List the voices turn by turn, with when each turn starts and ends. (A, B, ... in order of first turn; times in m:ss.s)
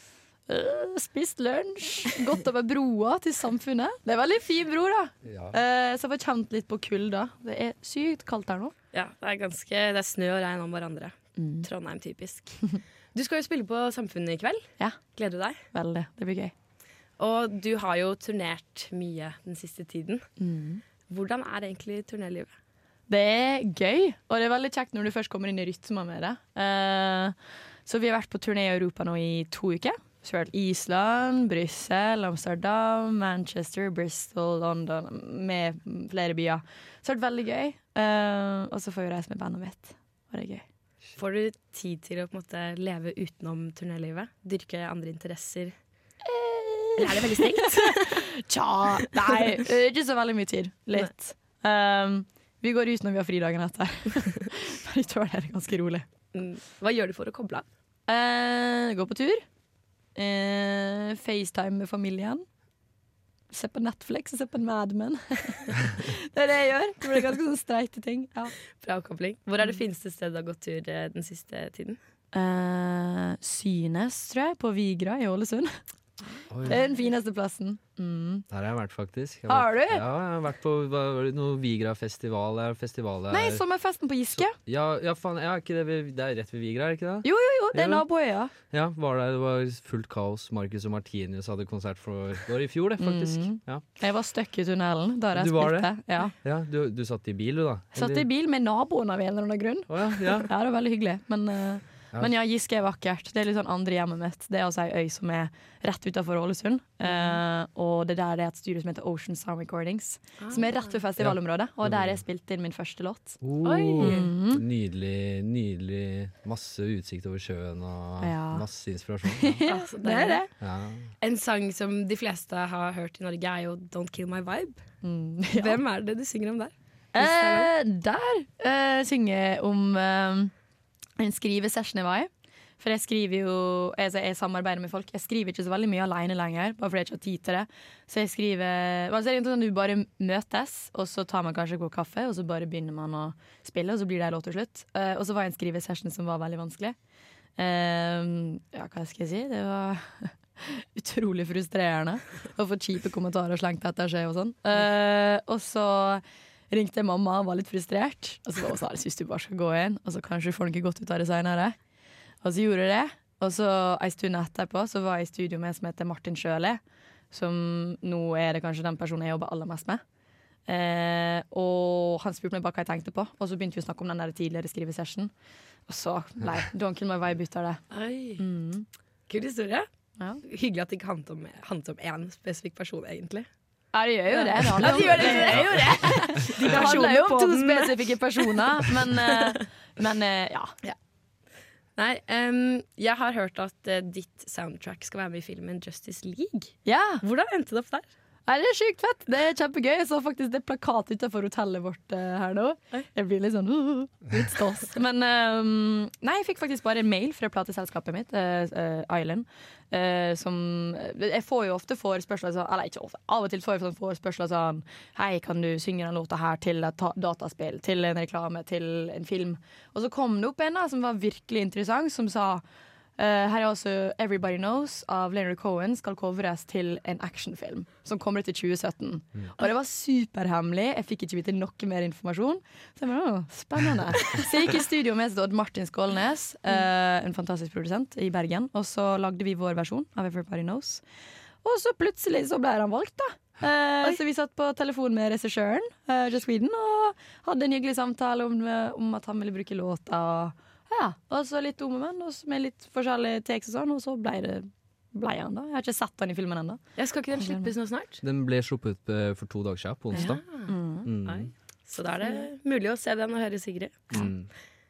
0:00.5-0:08.7 A
0:05.2-0:05.6 B
0:08.9-0:12.6 C
0:11.4-0:11.7 A
0:13.1-0:15.6 C
0:15.7-0:16.5 A
0:17.2-0:20.2 C
0:20.4-0:20.8 A
0:21.1-0:22.5 C
0:23.1-0:27.3 A
0:27.8-0:40.6 A
0:41.2-0:45.7 C
0:46.2-0:56.0 A
0:47.0-0:48.2 C
0:56.3-0:57.6 C
0:58.1-0:59.4 A
1:00.1-1:02.4 A
1:03.5-1:08.5 A
1:08.8-1:12.0 C
1:12.3-1:15.7 A
1:16.5-1:16.8 B
1:16.7-1:18.4 A
1:18.5-1:23.6 B
1:19.5-1:20.0 A
1:23.3-1:24.5 A
1:24.3-1:28.0 B
1:27.2-1:28.5 A
1:28.7-1:33.8 B
1:33.0-1:36.3 A
1:35.3-1:38.2 B
1:37.9-1:53.4 A
1:39.9-1:40.5 B
1:47.0-1:47.4 C
1:50.4-1:51.0 C
1:51.2-1:52.2 B
1:53.4-1:59.6 B
1:53.6-1:54.3 C
1:54.0-1:54.6 A
1:58.2-1:58.6 A
1:59.3-2:00.5 A
1:59.6-2:00.4 C
2:00.6-2:01.0 B
2:01.2-2:04.8 C
2:05.0-2:05.8 A
2:05.5-2:07.7 C
2:07.1-2:10.5 A
2:11.2-2:26.9 A
2:27.6-2:41.8 A
2:42.4-2:46.8 A
2:47.3-2:50.0 A
2:50.7-2:55.3 A
2:55.9-2:57.8 A
2:57.9-2:58.4 C
2:58.4-2:58.8 A
2:59.3-2:59.9 C
3:00.4-3:03.5 C
3:03.9-3:10.7 A
3:04.3-3:09.3 C
3:12.0-3:18.1 C
3:16.8-3:17.2 A
3:18.5-3:42.6 A
3:43.2-4:01.0 A
4:01.6-4:16.8 A
4:17.0-4:18.2 C
4:17.4-4:17.7 A
4:18.2-4:20.4 B
4:20.1-4:24.1 C
4:20.1-4:21.1 A
4:21.0-4:21.5 B
4:24.1-4:24.5 B